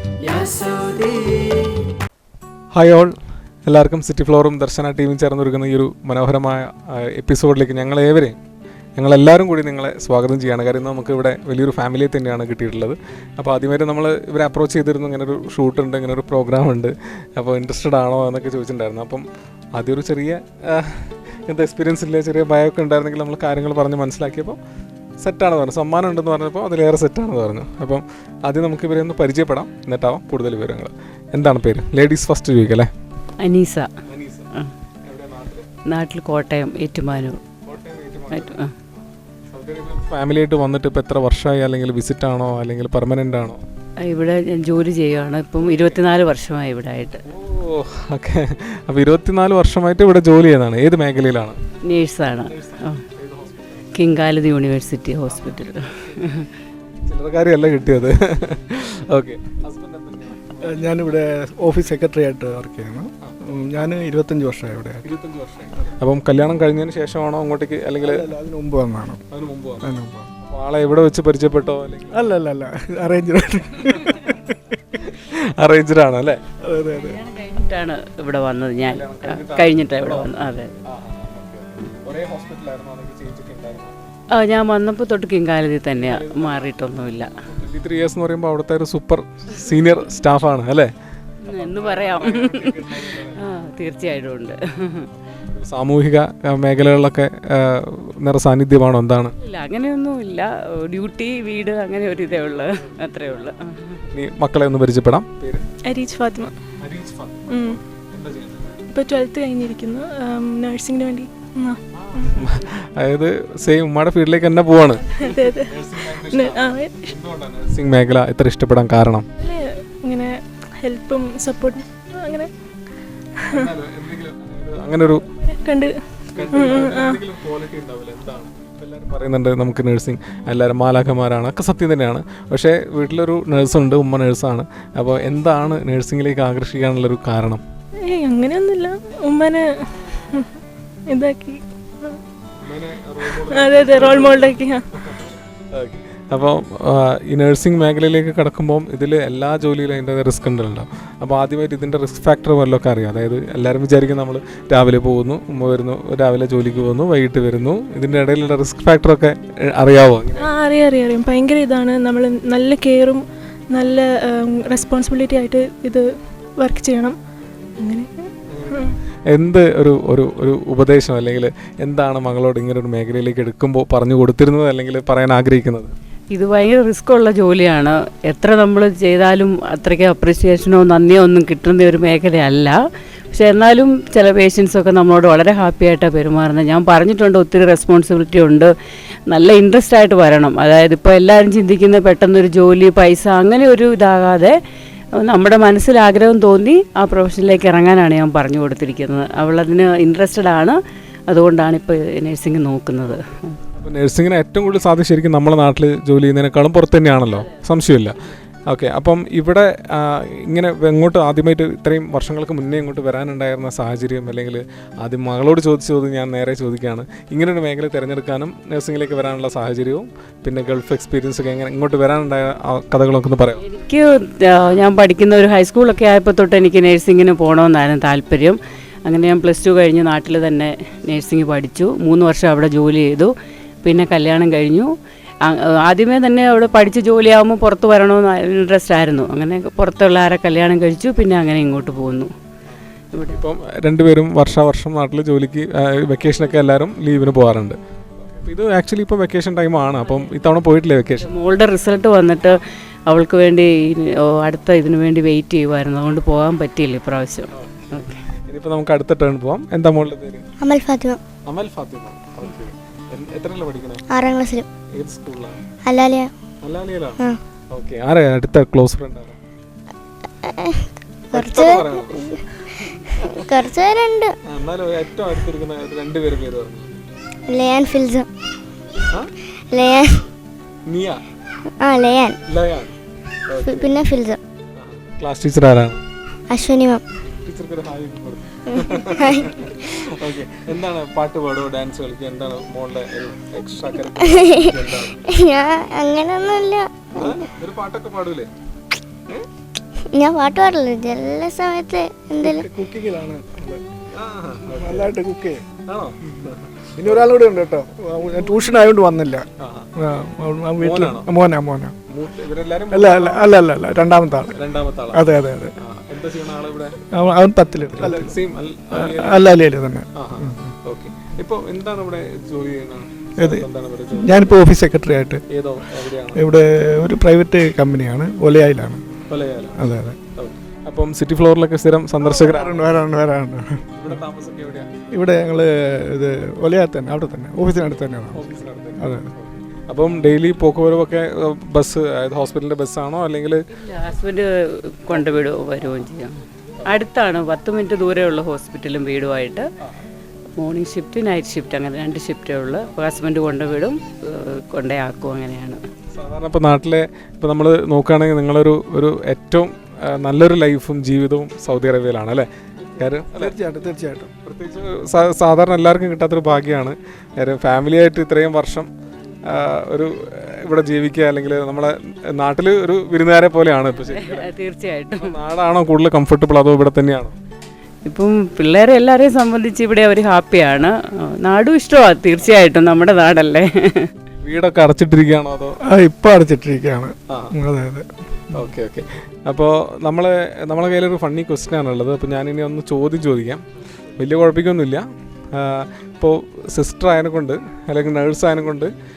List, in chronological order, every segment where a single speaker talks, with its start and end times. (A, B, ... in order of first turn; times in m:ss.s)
0:00.2-0:01.8 A
0:02.8-0:03.1 B
0:03.7-0:08.4 B
0:09.0-0:19.2 B
0:19.8-0:24.6 B
0:25.2-0:32.9 B
0:33.4-0:33.9 A
0:34.1-0:34.5 B
0:35.1-0:35.7 B
0:35.9-0:37.4 A
0:37.7-0:38.6 B
0:38.3-0:38.7 A
0:39.5-0:43.6 B
0:44.0-0:47.2 A
0:45.6-0:46.0 B
0:47.3-0:51.6 B
0:51.9-0:53.0 A
0:52.4-0:54.1 B
0:54.0-0:56.4 A
0:55.3-0:56.3 B
0:57.0-1:00.9 B
1:00.6-1:05.1 C
1:05.0-1:08.3 B
1:08.0-1:09.2 C
1:09.3-1:12.3 B
1:09.8-1:10.3 C
1:12.1-1:15.0 C
1:15.0-1:16.4 B
1:16.6-1:17.2 C
1:17.1-1:20.7 A
1:18.9-1:20.3 B
1:20.9-1:24.0 B
1:24.3-1:27.3 A
1:26.0-1:26.8 B
1:27.4-1:30.9 B
1:31.4-1:33.5 B
1:31.4-1:35.1 A
1:35.5-1:39.3 B
1:39.4-1:44.0 A
1:42.3-1:43.1 B
1:44.1-1:45.6 B
1:45.9-1:46.6 D
1:46.8-1:47.5 B
1:47.5-1:47.8 D
1:48.1-1:48.8 B
1:48.9-1:51.8 D
1:51.9-1:59.3 B
1:55.2-1:57.1 D
1:59.4-2:02.5 D
2:03.4-2:03.7 D
2:03.5-2:05.2 B
2:05.4-2:07.2 D
2:06.3-2:17.6 B
2:18.1-2:19.7 D
2:21.1-2:22.2 D
2:22.6-2:40.5 B
2:23.3-2:24.8 D
2:40.4-2:46.0 D
2:46.6-2:47.2 D
2:47.8-2:48.9 D
2:48.5-2:55.9 B
2:56.3-3:02.8 A
3:03.3-3:08.7 A
3:09.3-3:14.5 A
3:15.2-3:20.8 A
3:21.3-3:23.6 A
3:23.8-3:28.2 B
3:28.7-3:43.6 B
3:43.6-3:53.3 A
3:53.8-3:54.9 A
3:55.4-4:02.3 A
4:02.7-4:11.3 B
4:03.1-4:03.4 A
4:11.2-4:18.2 A
4:17.5-4:20.5 B
4:20.6-4:21.2 E
4:21.5-4:24.0 B
4:24.1-4:24.7 E
4:24.9-4:25.6 B
4:25.8-4:26.3 E
4:26.6-4:29.4 B
4:30.4-4:32.4 E
4:31.3-4:32.3 B
4:33.1-4:34.3 E
4:34.5-4:37.0 B
4:37.5-4:38.3 E
4:39.7-4:40.2 E
4:40.9-4:41.2 B
4:41.8-4:42.4 E
4:42.5-4:42.9 B
4:43.5-4:43.9 B
4:43.6-4:44.4 E
4:44.8-4:46.0 B
4:46.5-4:47.0 E
4:47.4-4:55.2 B
4:49.2-4:49.5 E
4:54.4-4:54.6 E
4:55.3-4:57.3 E
4:57.1-4:58.5 B
5:00.1-5:02.6 E
5:02.4-5:03.8 C
5:04.1-5:05.2 B
5:04.8-5:05.7 C
5:05.9-5:07.4 B
5:07.0-5:12.0 C
5:08.3-5:08.7 B
5:09.6-5:09.9 B
5:10.8-5:11.3 B
5:12.1-5:13.6 B
5:12.9-5:14.6 C
5:14.5-5:17.0 B
5:15.1-5:15.7 C
5:17.1-5:18.4 C
5:17.9-5:19.5 B
5:18.9-5:20.7 C
5:20.2-5:24.5 B
5:23.4-5:25.4 C
5:25.5-5:26.4 B
5:26.3-5:29.1 C
5:29.3-5:29.8 B
5:29.8-5:30.2 C
5:30.4-5:33.0 B
5:32.2-5:33.8 C
5:34.0-5:34.9 B
5:35.1-5:39.3 C
5:38.3-5:43.6 B
5:43.7-5:49.6 A
5:50.6-5:55.8 A
5:56.1-6:02.5 B
6:03.0-6:03.6 B
6:03.0-6:04.3 C
6:04.4-6:08.9 B
6:09.5-6:14.5 B
6:14.0-6:15.4 A
6:15.1-6:17.4 B
6:18.1-6:24.1 A
6:24.4-6:25.8 B
6:25.8-6:28.7 C
6:27.3-6:27.5 B
6:28.5-6:33.6 B
6:34.2-6:38.9 B